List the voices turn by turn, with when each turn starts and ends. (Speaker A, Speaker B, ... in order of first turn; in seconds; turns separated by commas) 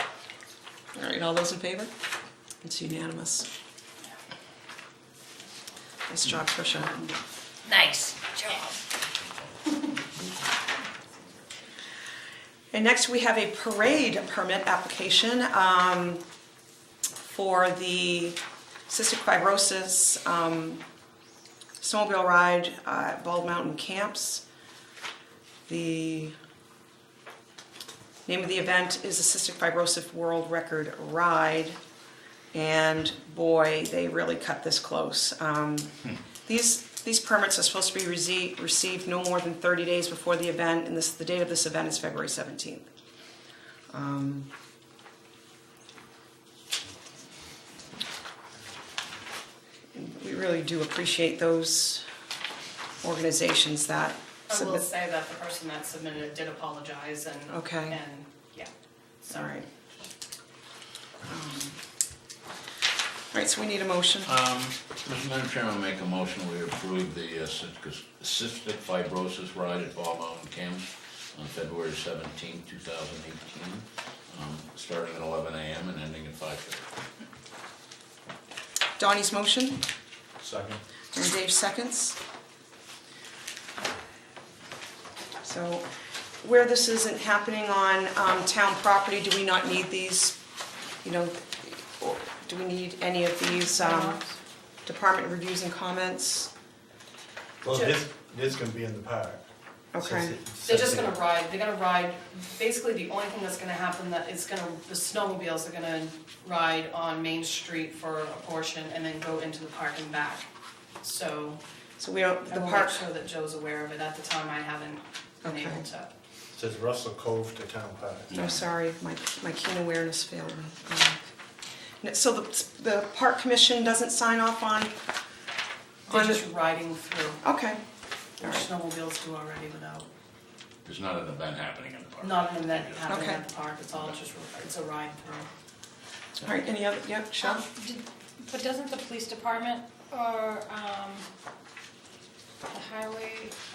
Speaker A: 0.9-1.9, Speaker A: 2.6-3.5, Speaker A: 6.1-7.1, Speaker B: 7.7-8.8, Speaker A: 12.7-16.2, Speaker A: 17.2-20.8, Speaker A: 21.8-24.4, Speaker A: 25.7-26.3, Speaker A: 28.2-31.8, Speaker A: 32.5-42.9, Speaker A: 43.9-44.5, Speaker A: 49.9-52.0, Speaker A: 53.0-54.9, Speaker C: 54.5-58.7, Speaker A: 57.5-58.0, Speaker C: 59.2-59.6, Speaker A: 59.3-59.6, Speaker A: 61.3-61.8, Speaker A: 63.3-64.3, Speaker D: 64.3-76.8, Speaker A: 79.0-79.8, Speaker D: 80.4-80.8, Speaker A: 81.1-82.2, Speaker A: 85.4-85.8, Speaker A: 86.4-90.4, Speaker A: 91.0-94.2, Speaker B: 93.6-94.2, Speaker A: 94.8-96.5, Speaker E: 97.6-99.4, Speaker C: 97.7-98.0, Speaker A: 99.9-100.3, Speaker E: 100.0-101.2, Speaker C: 100.7-110.5, Speaker C: 111.0-111.6, Speaker A: 112.0-113.1, Speaker C: 112.5-116.1, Speaker A: 115.4-115.8, Speaker E: 116.5-118.3, Speaker A: 118.3-121.2, Speaker A: 122.0-124.9, Speaker C: 126.1-127.4, Speaker A: 126.1-126.4, Speaker A: 127.4-127.8, Speaker C: 128.4-130.1, Speaker A: 128.4-128.7, Speaker D: 130.8-133.0, Speaker C: 132.2-135.5, Speaker A: 133.1-133.4, Speaker A: 136.4-137.7, Speaker B: 137.4-141.3, Speaker B: 142.7-143.5